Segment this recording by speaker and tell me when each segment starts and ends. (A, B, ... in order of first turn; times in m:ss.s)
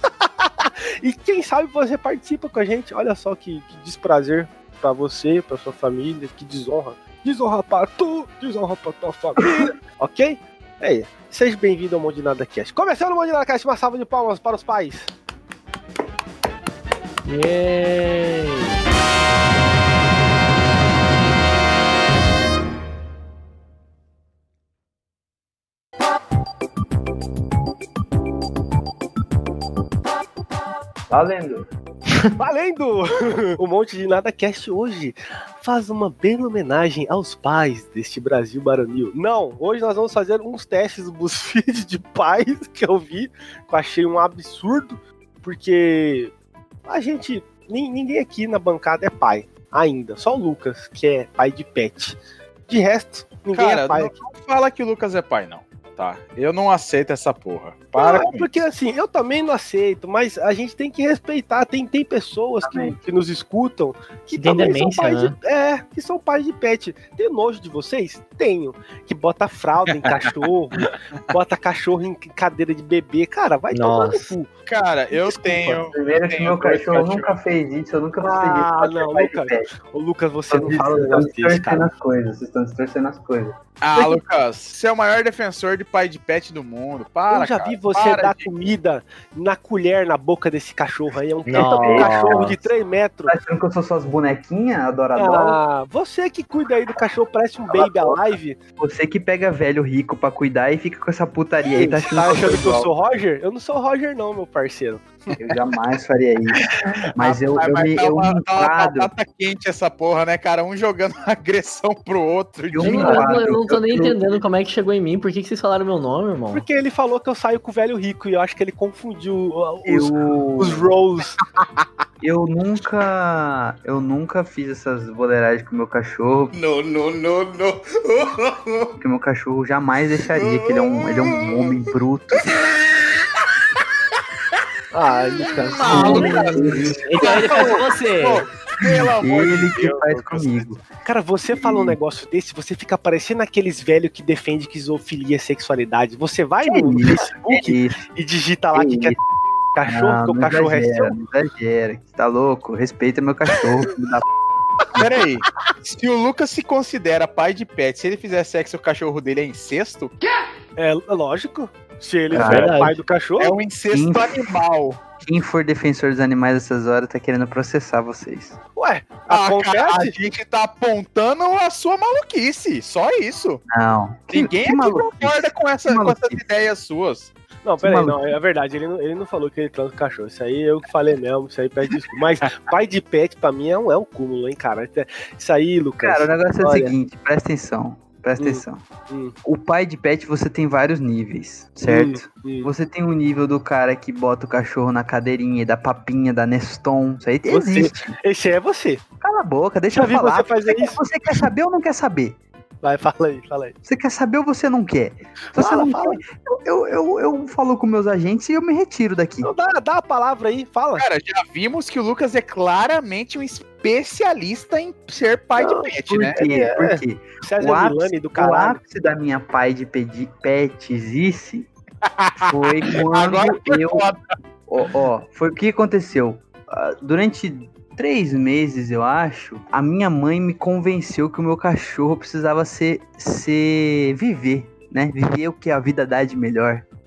0:00.2-0:15.1 A
0:17.3-0:18.8 B
0:31.1-0:31.7 C
0:32.4-0:46.3 A
0:46.9-0:54.1 A
0:53.5-0:58.6 D
0:58.0-1:14.5 A
1:02.6-1:03.0 C
1:04.4-1:05.4 B
1:13.7-1:14.3 B
1:14.7-1:17.4 D
1:15.1-1:15.8 A
1:15.5-1:19.7 C
1:18.2-1:21.9 A
1:20.5-1:23.6 C
1:23.8-1:28.5 D
1:27.3-1:33.3 A
1:31.5-1:32.6 B
1:31.6-1:32.6 C
1:33.3-1:35.6 C
1:35.2-1:38.6 A
1:37.7-1:42.9 C
1:41.8-1:45.4 A
1:45.4-1:49.1 C
1:47.2-1:53.3 D
1:52.7-1:54.2 C
1:52.8-1:56.7 B
1:56.5-2:01.4 A
1:59.8-2:00.9 C
2:02.2-2:06.6 C
2:06.6-2:07.7 D
2:09.0-2:12.6 C
2:14.9-2:16.8 A
2:15.6-2:20.7 D
2:15.8-2:17.8 C
2:15.9-2:18.5 B
2:18.9-2:20.8 C
2:21.0-2:29.2 A
2:26.6-2:28.1 C
2:28.8-2:29.2 C
2:29.8-2:31.1 A
2:29.9-2:34.3 C
2:35.0-2:40.1 D
2:40.8-2:43.6 A
2:42.3-2:42.8 C
2:42.3-2:43.0 B
2:43.4-2:45.0 D
2:43.9-2:44.6 C
2:45.2-2:48.6 C
2:48.8-2:50.2 A
2:49.3-2:53.6 D
2:53.7-2:56.4 C
2:54.3-2:57.3 D
2:57.6-3:06.9 A
2:57.8-2:58.2 C
3:06.0-3:08.8 C
3:08.4-3:09.4 A
3:09.4-3:18.2 C
3:11.8-3:12.7 A
3:17.5-3:19.0 A
3:19.2-3:22.4 C
3:19.9-3:21.4 A
3:22.8-3:23.8 A
3:23.8-3:29.5 C
3:25.5-3:26.2 A
3:29.4-3:31.1 A
3:31.0-3:36.4 D
3:35.6-3:38.8 A
3:36.1-3:41.7 C
3:42.0-3:44.2 D
3:42.5-3:44.1 C
3:44.7-3:56.9 C